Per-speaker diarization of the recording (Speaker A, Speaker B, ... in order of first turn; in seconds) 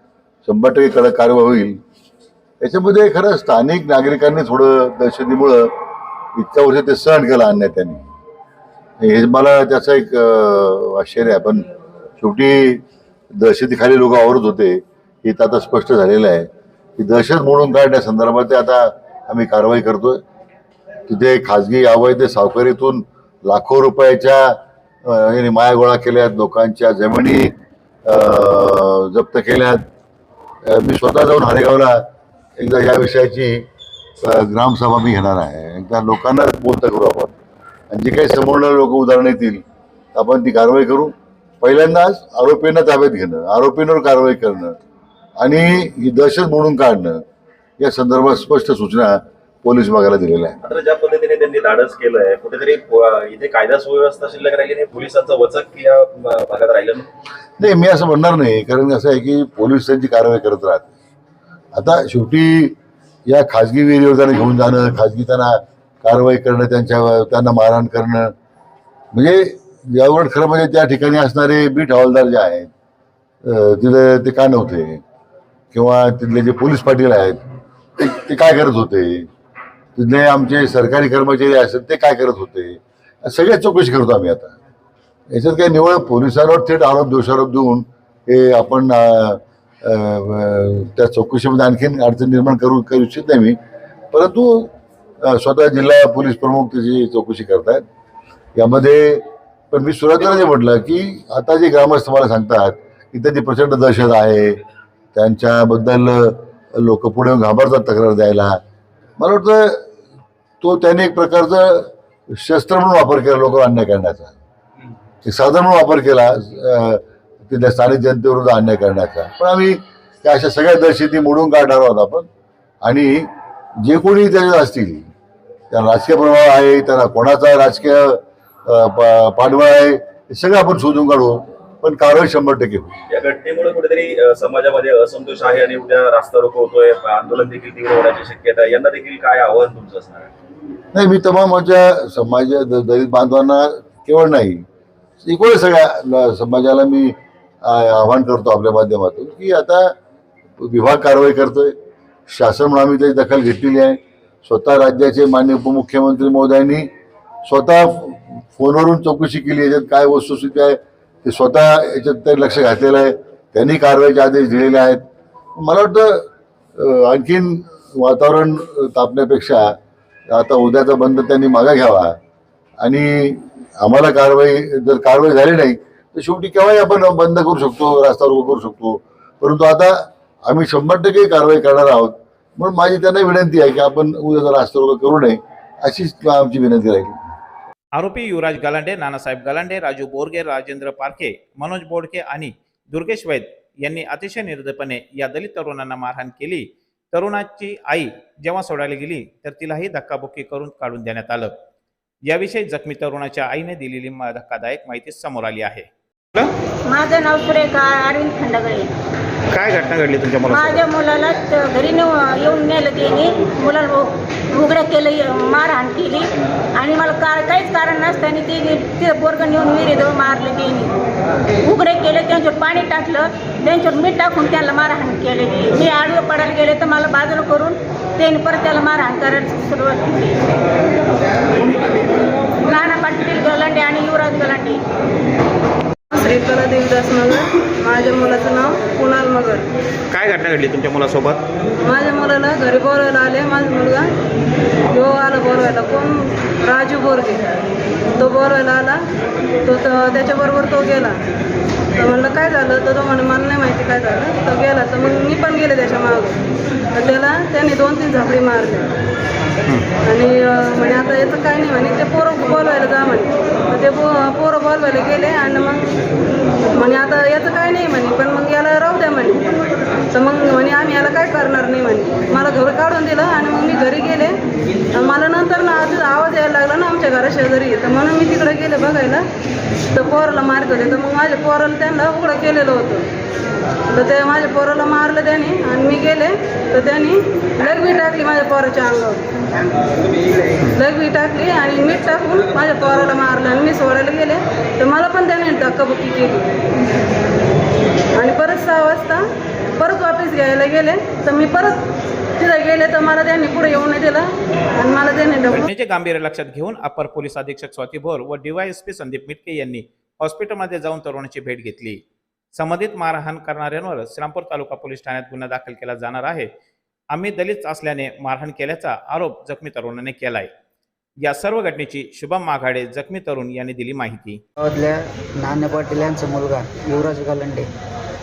Speaker A: 0.4-1.8, 2.6-5.7, 6.3-8.1, 9.0-11.7, 12.2-12.8, 13.3-20.2, 21.1-27.5, 28.1-29.9, 30.6-32.1, 32.6-33.6, 34.2-37.3, 37.9-39.6, 40.1-44.8, 45.4-47.2, 47.8-50.6, 57.6-60.9, 61.7-62.7, 63.3-68.3, 69.1-72.7, 73.4-75.0, 75.7-77.4, 78.0-79.3, 80.0-84.5, 85.3-93.6, 94.1-94.7, 95.2-97.8, 98.5-104.6, 105.1-108.6, 109.2-109.9, 110.6-114.4, 115.2-122.3, 122.8-123.3, 123.8-125.1, 125.7-132.9, 140.9-144.6, 145.2-149.9, 150.6-151.7, 152.3-156.9, 157.4-165.0, 165.6-169.8, 170.3-172.2, 172.8-187.2
Speaker B: 50.6-57.1, 133.1-140.3
Speaker C: 187.9-201.5, 202.3-206.5, 209.5-210.8, 240.1-241.4, 305.5-312.0, 312.6-316.5, 317.1-320.5, 321.2-324.4
Speaker D: 206.9-208.9, 210.5-220.9, 221.6-230.3, 232.7-234.8
Speaker E: 236.1-239.7, 241.8-244.1, 244.9-247.6, 248.2-249.0, 249.6-251.1, 252.0-256.4, 256.9-258.9, 260.0-266.1, 266.7-269.4, 270.1-274.3, 274.9-279.2, 279.9-283.0, 283.9-289.2, 290.8-296.5, 298.2-299.2, 299.8-301.8, 302.4-304.2, 304.8-305.7
Speaker F: 324.6-327.7